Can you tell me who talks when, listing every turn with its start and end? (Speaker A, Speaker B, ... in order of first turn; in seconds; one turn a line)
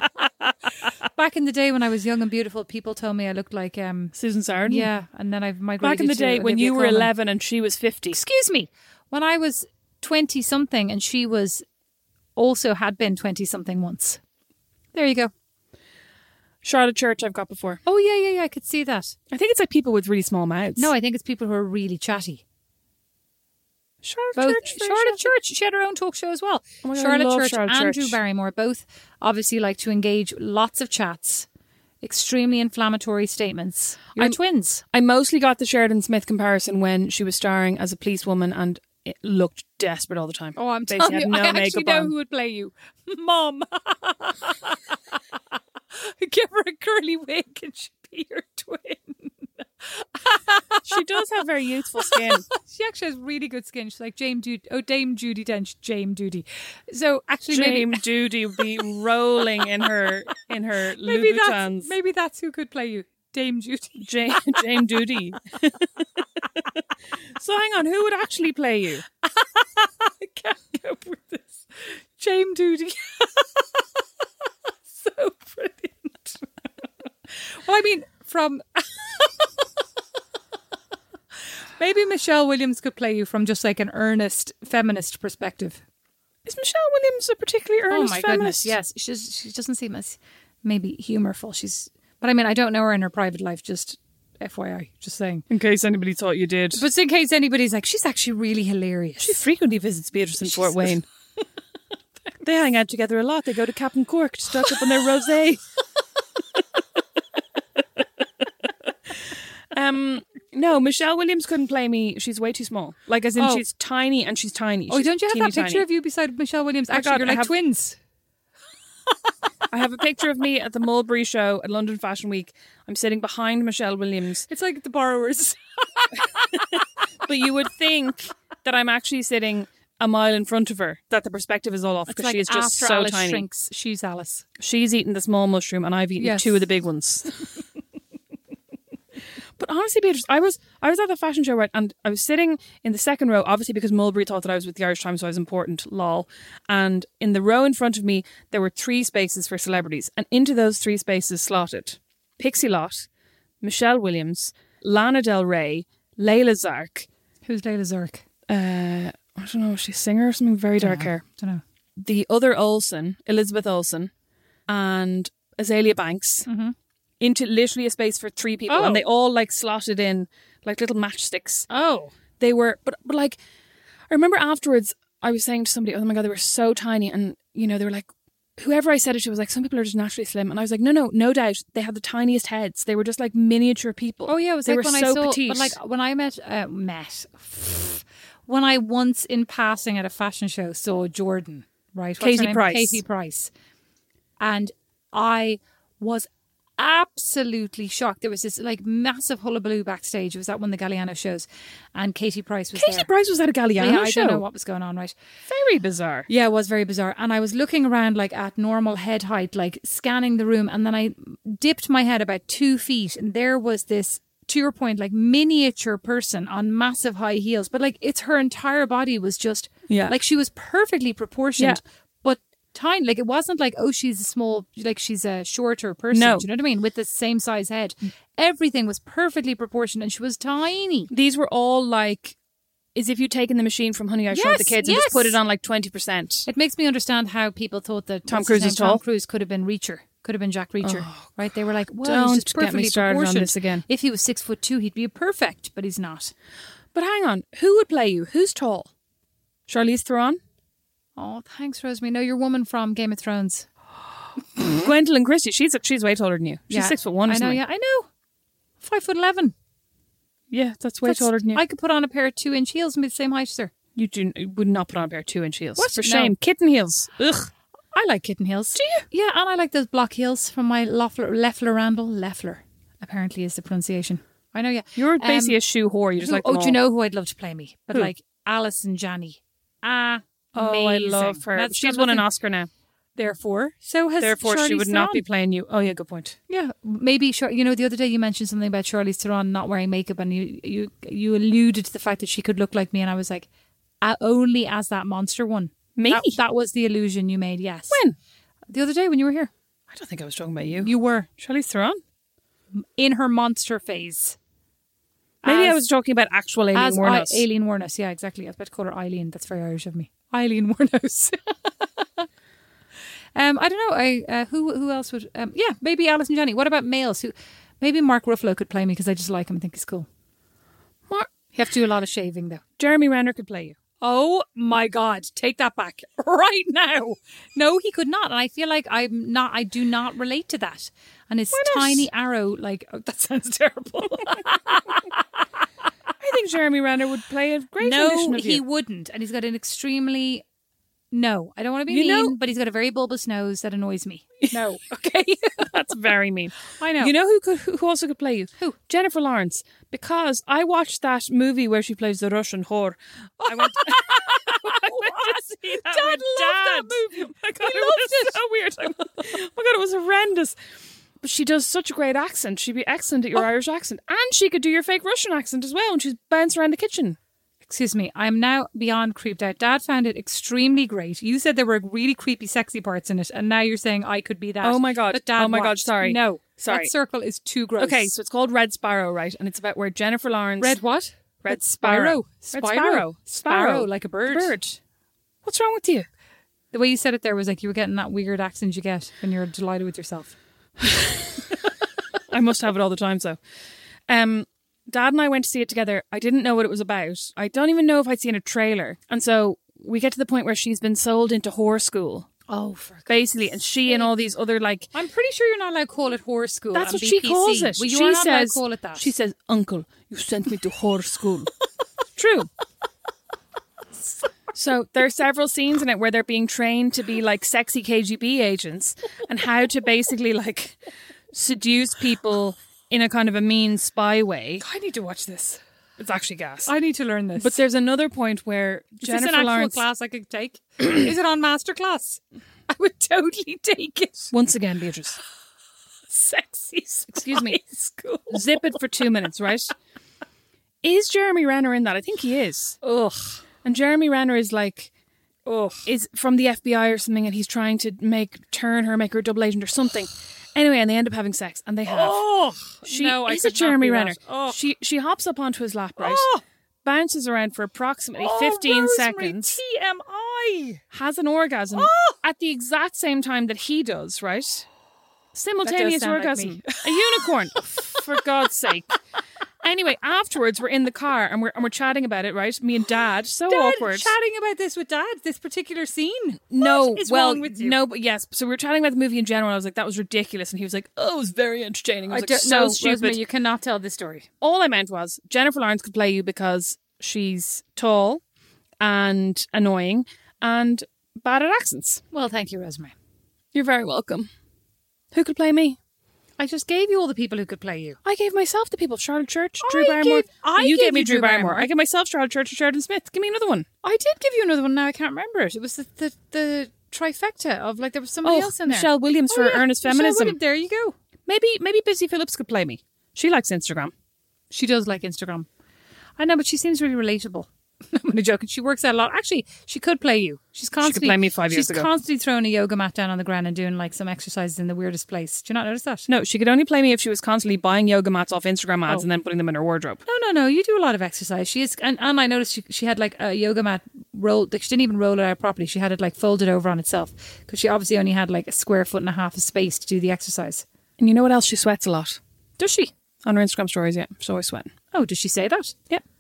Speaker A: 1.1-4.1
Speaker B: 4.1-4.9
Speaker A: 4.7-7.1
Speaker B: 5.8-8.2
Speaker A: 8.1-11.6
Speaker A: 12.4-14.2
Speaker A: 14.9-15.3
Speaker B: 16.6-17.8
Speaker A: 17.9-19.2
Speaker B: 19.3-20.9
Speaker A: 20.8-22.4
Speaker B: 24.0-25.3
Speaker A: 24.4-31.5
Speaker B: 26.8-28.2
Speaker A: 32.0-34.8
Speaker B: 34.9-42.1
Speaker A: 40.6-44.8
Speaker A: 45.9-51.0
Speaker B: 50.9-52.5
Speaker A: 52.0-58.0
Speaker B: 57.5-61.9
Speaker A: 61.0-65.3
Speaker B: 64.0-66.7
Speaker B: 67.3-69.0
Speaker A: 69.2-73.8
Speaker A: 74.9-76.7
Speaker A: 77.5-79.7
Speaker A: 81.8-85.8
Speaker B: 86.5-88.7
Speaker A: 87.9-95.5
Speaker B: 95.5-96.8
Speaker A: 96.7-99.4
Speaker B: 99.2-101.0
Speaker A: 100.4-101.0
Speaker B: 102.4-105.6
Speaker B: 109.1-115.8
Speaker A: 113.4-113.7
Speaker A: 114.9-118.0
Speaker B: 116.9-117.5
Speaker B: 119.7-124.5
Speaker A: 124.5-126.8
Speaker B: 126.7-133.4
Speaker A: 132.1-134.4
Speaker B: 134.6-137.4
Speaker A: 136.2-136.6
Speaker B: 139.6-153.1
Speaker B: 153.6-157.1
Speaker A: 157.5-158.2
Speaker B: 158.5-161.2
Speaker A: 160.8-161.6
Speaker B: 162.0-164.1
Speaker B: 164.7-166.5
Speaker A: 166.5-166.8
Speaker B: 167.2-171.7
Speaker A: 168.7-169.1
Speaker A: 171.7-172.1
Speaker B: 172.4-173.4
Speaker B: 174.1-185.8
Speaker A: 184.3-193.5
Speaker B: 192.2-193.0
Speaker A: 194.4-203.1
Speaker B: 202.8-204.4
Speaker A: 203.8-205.1
Speaker B: 205.5-206.3
Speaker A: 206.3-231.1
Speaker B: 219.9-220.2
Speaker B: 226.1-226.5
Speaker B: 231.1-232.4
Speaker B: 232.9-236.5
Speaker A: 234.3-235.4
Speaker A: 236.5-246.3
Speaker B: 238.3-239.0
Speaker B: 240.8-241.4
Speaker B: 242.0-243.8
Speaker B: 246.9-248.9
Speaker B: 249.7-250.4
Speaker A: 251.2-253.7
Speaker B: 254.7-257.6
Speaker A: 256.7-258.1
Speaker A: 258.8-259.5
Speaker B: 260.5-261.6
Speaker A: 261.0-263.7
Speaker B: 264.0-267.5
Speaker A: 265.8-266.4
Speaker A: 267.9-275.6
Speaker B: 268.8-269.1
Speaker B: 275.0-276.8
Speaker A: 276.2-282.3
Speaker B: 280.6-282.7
Speaker A: 283.2-285.3
Speaker B: 284.2-286.4
Speaker A: 286.5-293.5
Speaker A: 294.0-298.0
Speaker B: 296.0-296.4
Speaker B: 297.9-298.1
Speaker A: 298.7-299.5
Speaker B: 299.9-302.0
Speaker A: 300.8-301.3
Speaker A: 302.8-304.4
Speaker A: 305.4-305.8
Speaker B: 305.4-307.5
Speaker A: 306.7-312.3
Speaker A: 313.4-320.1
Speaker A: 321.5-322.6
Speaker B: 322.8-323.8
Speaker A: 324.0-335.1
Speaker B: 331.5-332.1
Speaker B: 336.2-338.6
Speaker A: 337.8-340.4
Speaker A: 341.1-345.8
Speaker B: 341.9-342.4
Speaker B: 345.6-360.6
Speaker A: 346.8-347.1
Speaker A: 353.4-358.4
Speaker B: 361.2-367.2
Speaker A: 367.6-378.1
Speaker B: 374.6-376.9
Speaker B: 377.8-380.8
Speaker A: 380.6-384.5
Speaker B: 381.4-384.8
Speaker B: 385.4-386.1
Speaker A: 386.7-390.3
Speaker B: 391.0-391.3
Speaker B: 392.3-393.4
Speaker B: 394.1-402.3
Speaker A: 402.5-404.1
Speaker B: 403.1-404.9
Speaker A: 404.9-409.1
Speaker B: 406.7-411.5
Speaker B: 412.1-412.5
Speaker B: 414.6-420.8
Speaker B: 421.3-424.6
Speaker A: 424.6-425.6
Speaker B: 426.0-426.7
Speaker A: 426.7-427.6
Speaker B: 427.4-429.9
Speaker A: 429.0-434.3
Speaker B: 434.3-435.2
Speaker A: 436.1-439.1
Speaker B: 437.1-437.6
Speaker B: 438.3-439.7
Speaker B: 440.8-442.8
Speaker A: 442.8-443.4
Speaker B: 443.6-444.9
Speaker A: 445.5-445.9
Speaker B: 445.9-452.2
Speaker A: 451.9-454.6
Speaker B: 452.8-456.3
Speaker A: 456.0-456.4
Speaker B: 456.8-459.6
Speaker A: 458.2-460.8
Speaker B: 460.9-464.7
Speaker A: 461.7-462.2
Speaker B: 465.3-469.0
Speaker A: 465.6-468.0
Speaker B: 469.6-474.1
Speaker A: 473.5-477.8
Speaker B: 476.5-483.2
Speaker A: 482.1-484.3
Speaker B: 484.4-488.2
Speaker B: 488.8-492.0
Speaker A: 492.1-492.9
Speaker B: 493.5-494.3
Speaker B: 495.1-495.8
Speaker A: 496.4-498.0
Speaker B: 498.0-503.7
Speaker A: 499.6-501.7
Speaker A: 503.8-510.9
Speaker B: 508.2-510.4
Speaker B: 511.3-513.9
Speaker A: 514.5-515.5
Speaker A: 516.2-526.1
Speaker B: 520.8-521.9
Speaker B: 526.1-530.0
Speaker A: 530.1-540.6
Speaker B: 541.0-542.2
Speaker A: 542.6-542.9
Speaker B: 543.2-544.7
Speaker A: 544.9-545.8